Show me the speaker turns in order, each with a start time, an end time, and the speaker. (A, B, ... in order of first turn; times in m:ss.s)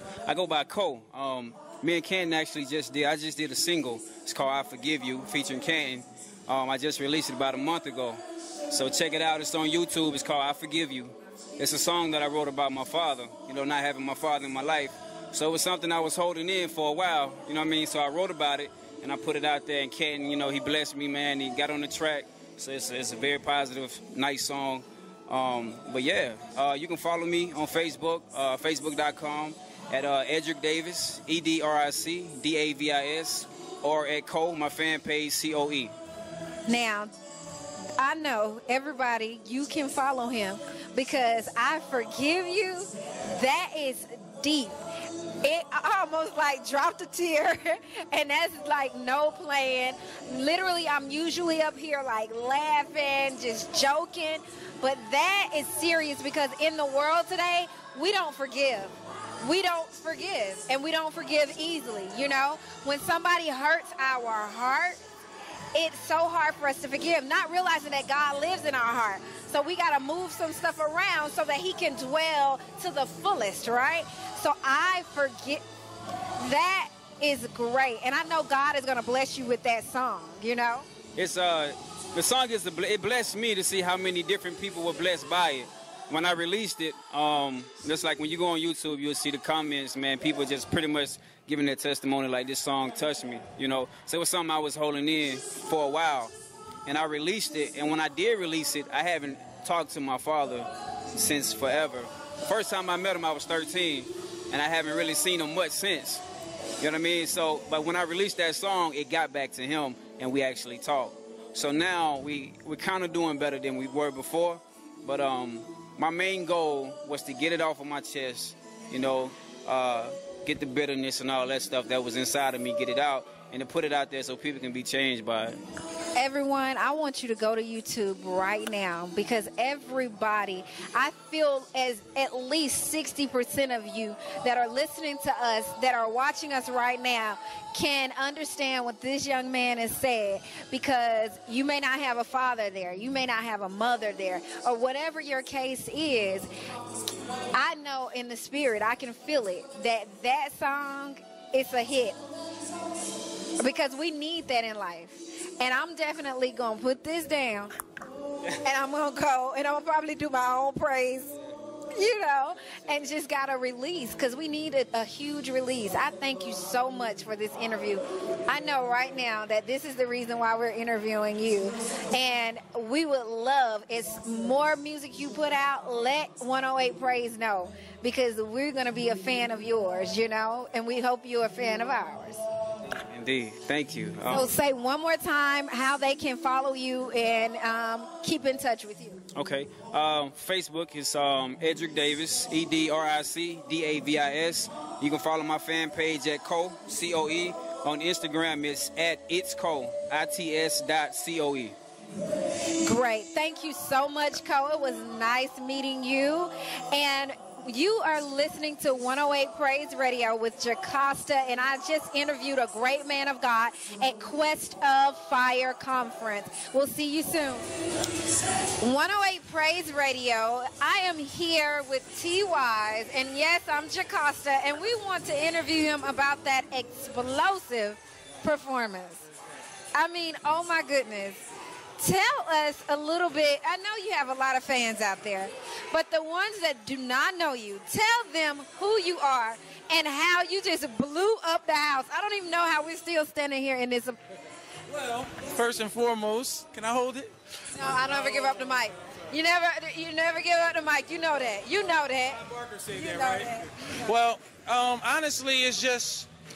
0:00.3-0:35.9 A
0:36.7-0:37.1 B
0:38.0-0:44.8 B
0:45.4-1:05.0 B
1:05.7-1:15.6 B
1:16.4-1:20.9 B
1:21.2-1:36.3 A
1:36.9-1:46.2 A
1:46.8-2:05.6 A
2:06.2-2:26.5 B
2:27.5-2:32.2 B
2:33.6-2:37.7 B
2:38.6-2:41.3 B
2:41.9-3:02.4 B
3:02.9-3:04.5 A
3:04.3-3:09.2 B
3:09.4-3:21.8 A
3:22.8-3:37.7 B
3:38.8-3:49.3 B
3:49.9-3:51.4 B
3:52.0-4:04.2 B
4:04.9-4:07.3 C
4:07.7-4:13.9 B
4:12.4-4:16.3 C